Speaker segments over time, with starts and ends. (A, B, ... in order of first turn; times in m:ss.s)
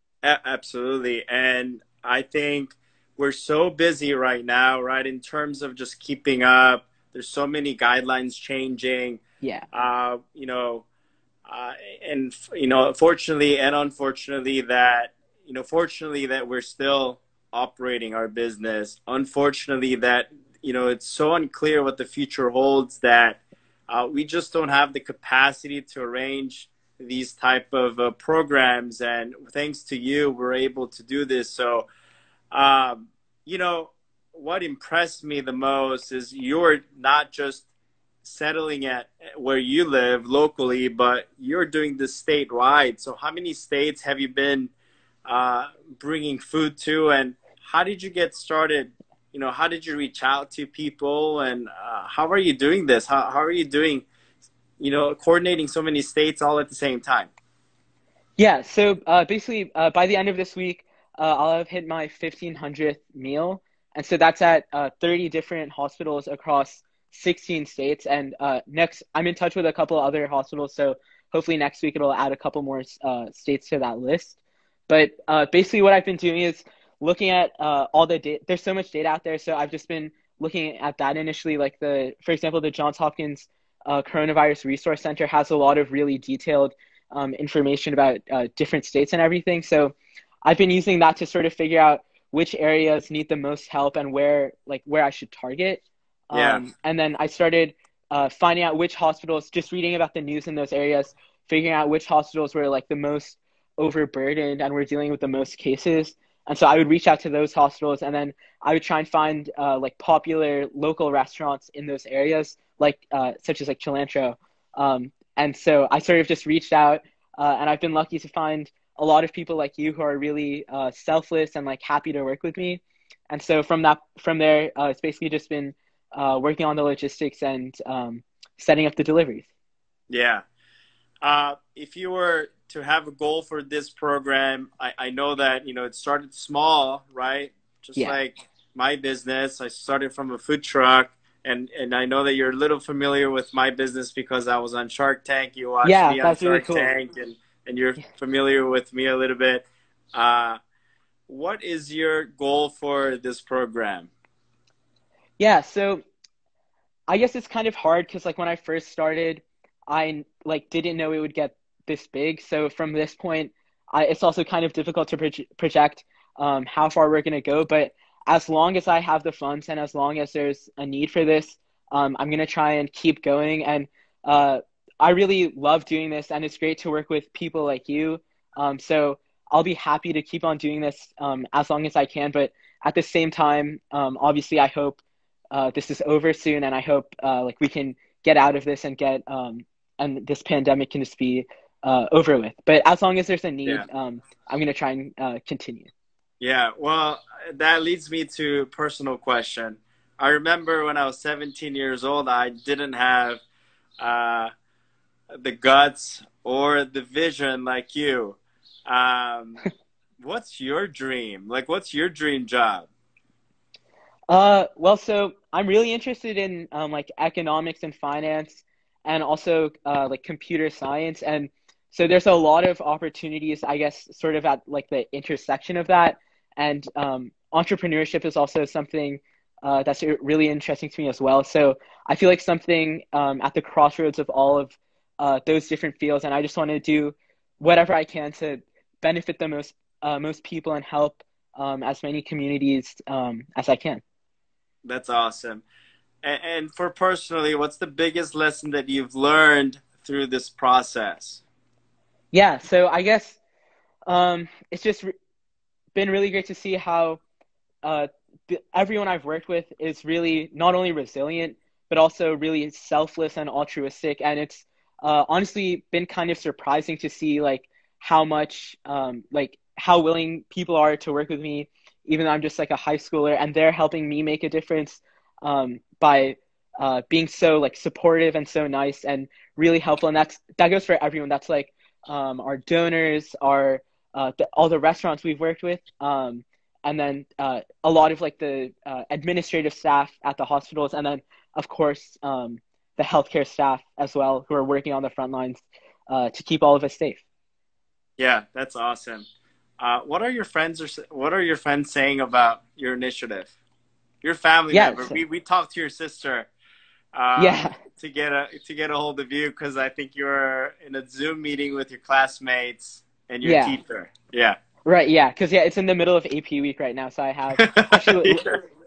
0:00.2-0:09.2 A
0:09.7-0:10.9 A
0:11.5-0:31.9 A
0:32.5-0:37.7 A
0:38.2-0:44.7 A
0:45.2-0:54.0 A
0:54.8-0:57.3 A
0:58.4-1:14.4 B
1:14.9-1:30.0 B
1:30.5-2:09.5 B
1:36.3-1:36.6 A
2:10.1-2:10.4 A
2:11.2-2:30.6 A
2:25.8-2:26.9 B
2:31.3-2:34.1 A
2:35.4-2:36.0 B
2:37.1-3:15.9 B
3:16.4-3:23.4 A
3:24.0-3:24.5 A
3:25.4-3:29.6 A
3:30.2-3:32.9 A
3:34.3-4:04.0 B
4:04.8-4:05.6 A
4:06.2-4:11.4 A
4:12.3-4:13.4 B
4:14.1-4:15.1 B
4:16.0-4:17.2 B
4:17.8-4:57.2 B
4:58.2-4:59.3 A
4:59.8-5:03.5 A
5:04.2-5:06.5 A
5:04.7-5:05.2 B
5:07.1-5:14.6 A
5:07.4-5:07.8 B
5:13.4-5:13.8 B
5:14.8-5:18.4 B
5:17.6-5:18.6 A